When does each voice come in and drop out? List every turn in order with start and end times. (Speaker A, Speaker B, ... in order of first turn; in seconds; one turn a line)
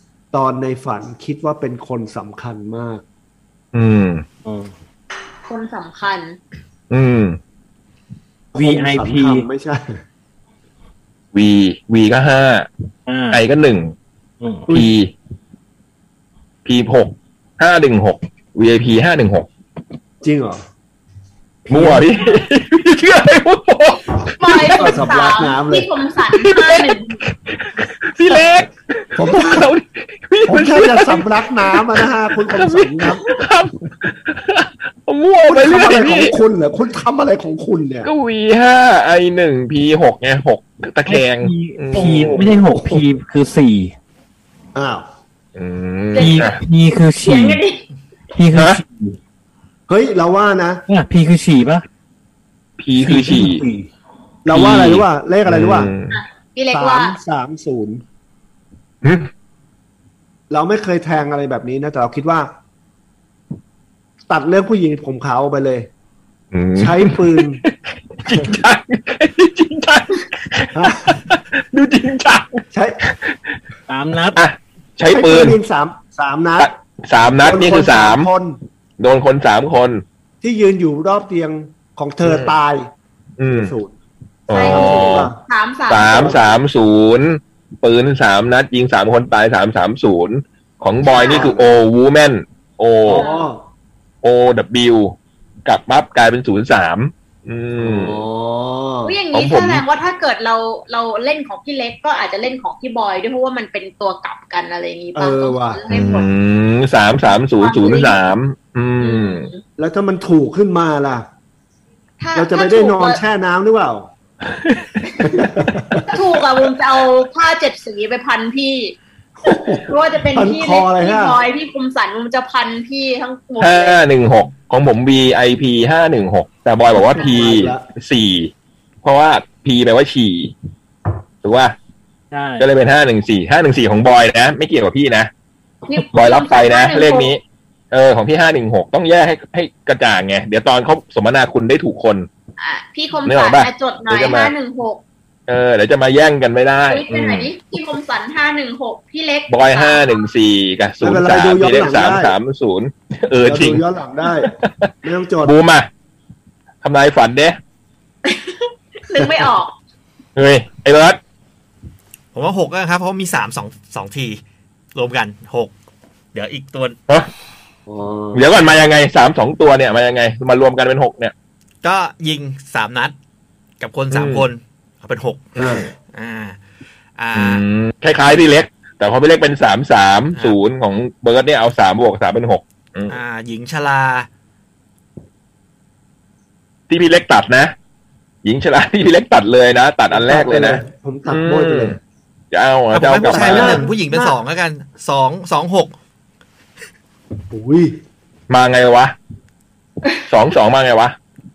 Speaker A: 0.3-3.0
Speaker B: 3.7-4.2
Speaker C: 4.5-4.7
Speaker D: 5.5-6.4
Speaker B: 6.9-7.4
Speaker A: 8.5-10.0
Speaker C: 8.6-9.4
Speaker B: 11.3-12.7
Speaker C: 13.1-13.4
Speaker B: 13.3-13.9
Speaker C: 14.4-14.7
Speaker B: 14.7-15.1
Speaker B: 16.6-19.5
Speaker A: 20.2-20.6
Speaker B: 21.7-24.9
Speaker C: 21.7-22.0
Speaker D: 24.4-27.1
Speaker A: 24.5-25.9
Speaker B: 26.3-36.4
Speaker A: 29.1-29.7
Speaker A: 30.4-33.3
Speaker A: 35.5-38.1
Speaker B: 38.0-42.4
Speaker C: 41.1-43.9
Speaker A: 42.1-43.0
Speaker A: 44.8-45.1
Speaker B: 45.5-46.6
Speaker D: 46.1-46.5
Speaker C: 46.2-47.6
Speaker D: 47.2-47.8
Speaker C: 48.3-49.2
Speaker B: 48.5-48.8
Speaker A: 49.9-50.8
Speaker C: 50.9-51.9
Speaker B: 52.8-53.6
Speaker C: 53.0-53.9
Speaker A: 54.5-55.9
Speaker B: 54.5-56.2
Speaker D: 56.1-57.2
Speaker A: 56.7-58.0
Speaker B: 59.0-59.3
Speaker A: 60.5-62.5
Speaker A: 64.3-65.9
Speaker B: 66.5-73.4
Speaker A: 66.8-67.6
Speaker A: 70.7-71.2
Speaker A: 72.7-73.0
Speaker C: 73.9-74.4
Speaker B: 74.4-75.6
Speaker A: 75.1-76.7
Speaker B: 76.6-78.3
Speaker A: 77.4-78.6
Speaker B: 79.0-80.0
Speaker A: 80.4-82.9
Speaker B: 82.2-82.5
Speaker B: 83.4-83.7
Speaker A: 83.5-83.9
Speaker B: 84.5-85.3
Speaker A: 84.5-85.4
Speaker D: 84.5-86.3
Speaker B: 85.9-93.3
Speaker A: 86.0-86.4
Speaker D: 91.0-91.5
Speaker A: 91.2-91.7
Speaker A: 93.1-93.6
Speaker D: 93.1-93.5
Speaker B: 94.2-98.2
Speaker A: 97.8-99.2
Speaker D: 99.0-106.3
Speaker B: 99.3-99.8
Speaker A: 105.2-105.8
Speaker B: 105.9-109.5
Speaker D: 107.3-108.2
Speaker D: 109.0-109.6
Speaker A: 109.8-111.3
Speaker D: 112.2-113.2
Speaker A: 112.3-114.1
Speaker B: 114.5-114.9
Speaker A: 115.2-116.1
Speaker D: 116.1-119.0
Speaker A: 119.4-121.4
Speaker D: 119.5-124.0
Speaker B: 123.6-128.5
Speaker A: 126.9-127.9
Speaker B: 129.0-130.5
Speaker B: 131.4-131.7
Speaker C: 132.3-132.7
Speaker B: 132.6-135.3
Speaker D: 135.9-137.3
Speaker B: 136.1-142.3
Speaker D: 142.6-145.0
Speaker B: 143.3-144.5
Speaker B: 145.5-147.5
Speaker D: 146.9-150.2
Speaker B: 149.5-153.8
Speaker A: 151.0-152.3
Speaker A: 153.4-155.6
Speaker B: 154.4-154.9
Speaker B: 155.4-155.9
Speaker B: 156.8-157.6
Speaker D: 158.2-159.8
Speaker B: 160.4-161.2
Speaker E: 162.3-164.4
Speaker E: 164.9-165.7
Speaker E: 166.3-167.0
Speaker A: 167.9-168.5
Speaker B: 168.3-171.3
Speaker E: 171.8-173.2
Speaker E: 173.8-176.6
Speaker B: 174.1-174.5
Speaker A: 175.6-175.8
Speaker E: 177.2-177.6
Speaker B: 177.3-183.2
Speaker E: 183.1-184.3
Speaker B: 186.9-187.7
Speaker B: 188.4-192.0
Speaker A: 190.1-192.0
Speaker B: 192.5-193.9
Speaker E: 192.9-196.0
Speaker A: 193.3-194.3
Speaker A: 197.5-198.0
Speaker B: 198.5-199.2
Speaker B: 200.3-201.2